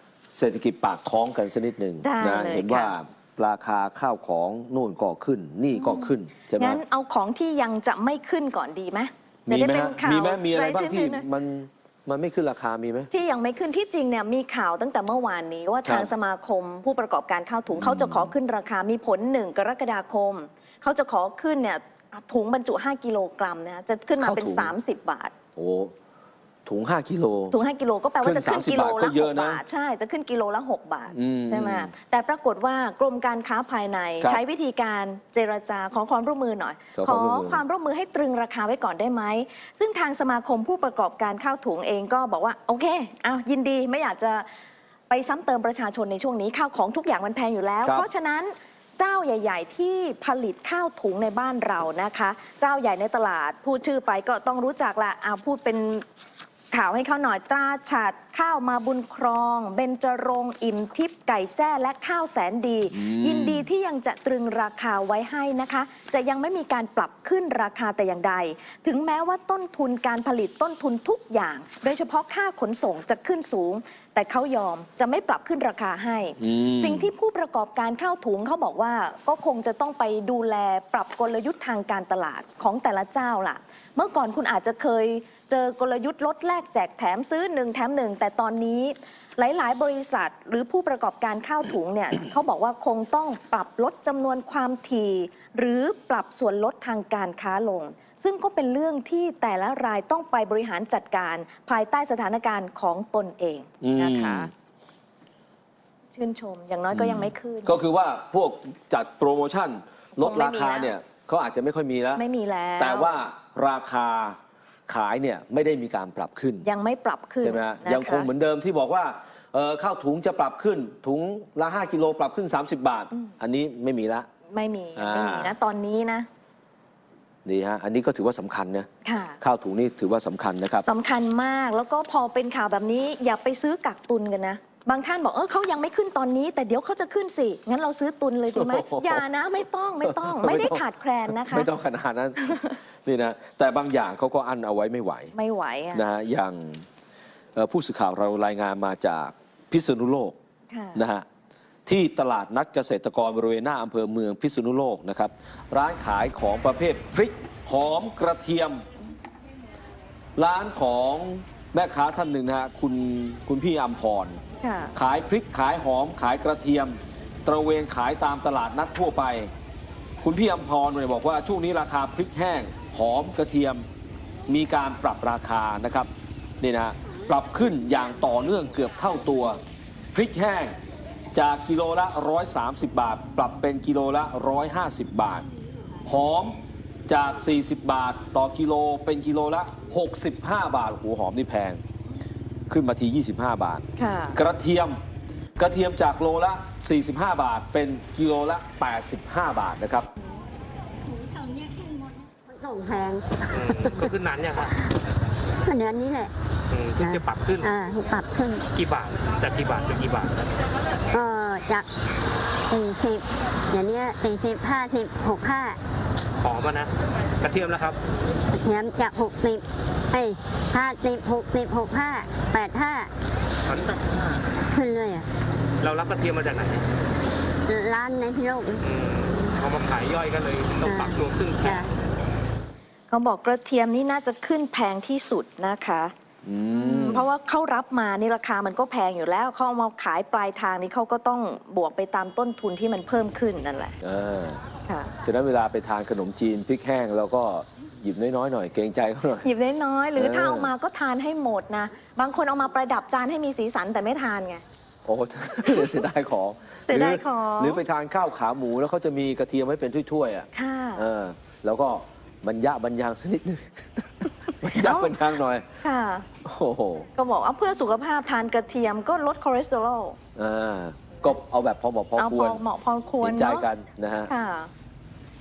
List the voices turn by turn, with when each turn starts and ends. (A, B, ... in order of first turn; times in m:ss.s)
0:00.3-0:06.8 A
0:02.0-0:02.9 B
0:05.7-0:11.2 B
0:09.5-0:13.1 A
0:13.1-0:25.3 B
0:15.8-0:16.1 A
0:17.7-0:18.3 A
0:24.2-0:24.7 A
0:25.6-0:25.9 A
0:26.6-0:27.6 A
0:27.5-0:44.5 B
0:28.2-0:29.6 A
0:31.1-0:31.9 A
0:36.9-0:37.6 A
0:45.1-0:56.0 B
0:56.7-1:44.5 B
1:02.9-1:03.7 A
1:16.4-1:17.1 A
1:43.8-1:44.5 A
1:46.1-1:47.8 B
1:46.9-1:52.2 A
1:50.2-1:50.9 B
1:52.1-1:53.1 B
1:52.8-1:56.7 A
1:56.6-1:58.3 B
1:57.4-2:04.3 A
2:04.5-2:06.3 B
2:05.0-2:05.6 A
2:07.4-2:08.9 A
2:09.0-2:09.4 B
2:09.4-2:10.9 A
2:10.8-2:21.7 B
2:18.5-2:19.2 A
2:20.0-2:25.3 A
2:25.3-2:26.0 B
2:25.9-2:26.9 A
2:27.5-2:30.4 A
2:30.7-2:31.0 B
2:30.9-2:31.2 A
2:31.8-2:38.8 A
2:40.4-2:44.4 A
2:44.6-2:44.9 B
2:44.9-2:49.5 A
2:50.2-2:53.8 A
2:54.5-2:59.6 A
3:00.1-3:00.8 A
3:01.3-3:05.5 A
3:06.0-3:11.8 A
3:12.7-3:15.0 A
3:14.0-3:14.4 B
3:15.6-3:20.1 A
3:21.3-3:24.1 C
3:23.5-3:24.8 D
3:25.6-3:26.3 C
3:26.7-3:27.7 D
3:27.0-3:28.7 C
3:28.7-3:30.5 D
3:31.1-3:31.9 C
3:32.7-3:35.8 C
3:36.4-3:38.0 D
3:38.5-3:43.1 C
3:43.6-3:44.4 D
3:44.7-3:45.3 C
3:45.8-3:46.8 D
3:47.7-3:48.8 C
3:48.8-3:51.9 D
3:50.8-3:51.9 C
3:53.1-3:56.1 B
3:56.4-3:57.3 A
3:56.7-4:04.0 B
4:04.0-4:04.6 A
4:04.8-4:05.1 B
4:05.2-4:09.5 A
4:09.4-4:14.6 B
4:10.2-4:10.7 A
4:15.0-4:25.7 A
4:16.9-4:17.8 B
4:20.5-4:21.1 B
4:24.6-4:25.2 B
4:25.8-4:26.3 B
4:26.4-4:27.1 A
4:27.1-4:30.2 B
4:30.4-4:32.6 A
4:32.2-4:33.7 B
4:33.2-4:34.3 A
4:34.3-4:34.7 B